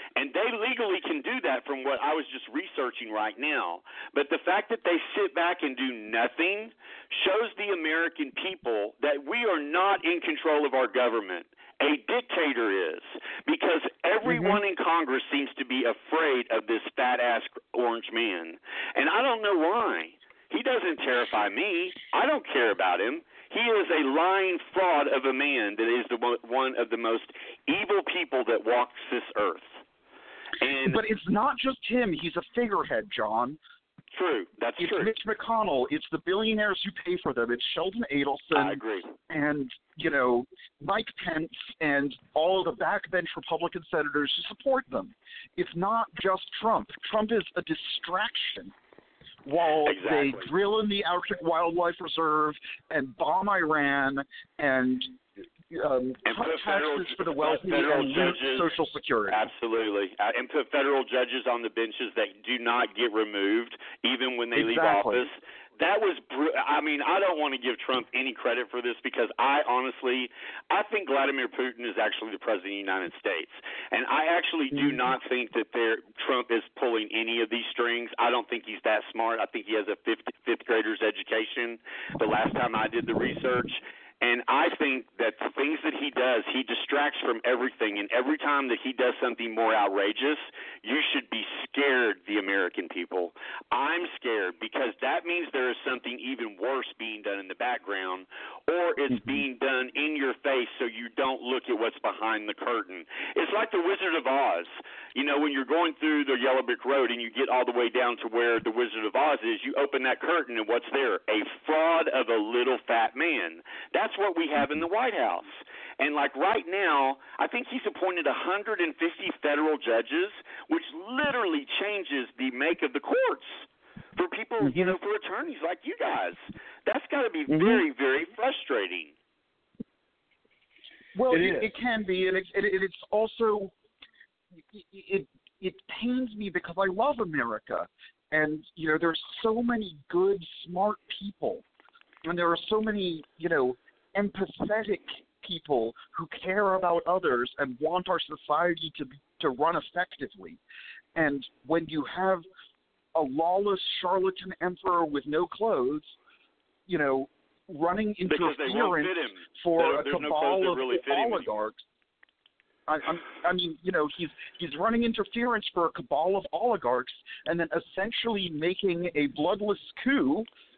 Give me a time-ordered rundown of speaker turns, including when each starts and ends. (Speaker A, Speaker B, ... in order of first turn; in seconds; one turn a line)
Speaker A: 0.1-29.8
Speaker B: 14.2-14.6
Speaker A: 30.6-31.0
Speaker B: 30.8-33.6
Speaker A: 34.1-35.1
Speaker B: 34.8-48.7
Speaker A: 38.5-39.1
Speaker B: 49.4-59.5
Speaker A: 49.8-50.5
Speaker A: 56.2-58.8
Speaker A: 59.3-129.1
Speaker B: 64.5-65.3
Speaker B: 74.7-75.0
Speaker B: 99.1-99.4
Speaker B: 124.6-124.9
Speaker B: 127.5-127.8
Speaker B: 131.1-133.7
Speaker B: 134.6-141.6
Speaker B: 142.2-150.6
Speaker B: 151.1-152.4
Speaker B: 153.1-156.2
Speaker B: 156.9-161.8
Speaker A: 158.3-161.5
Speaker B: 162.9-170.5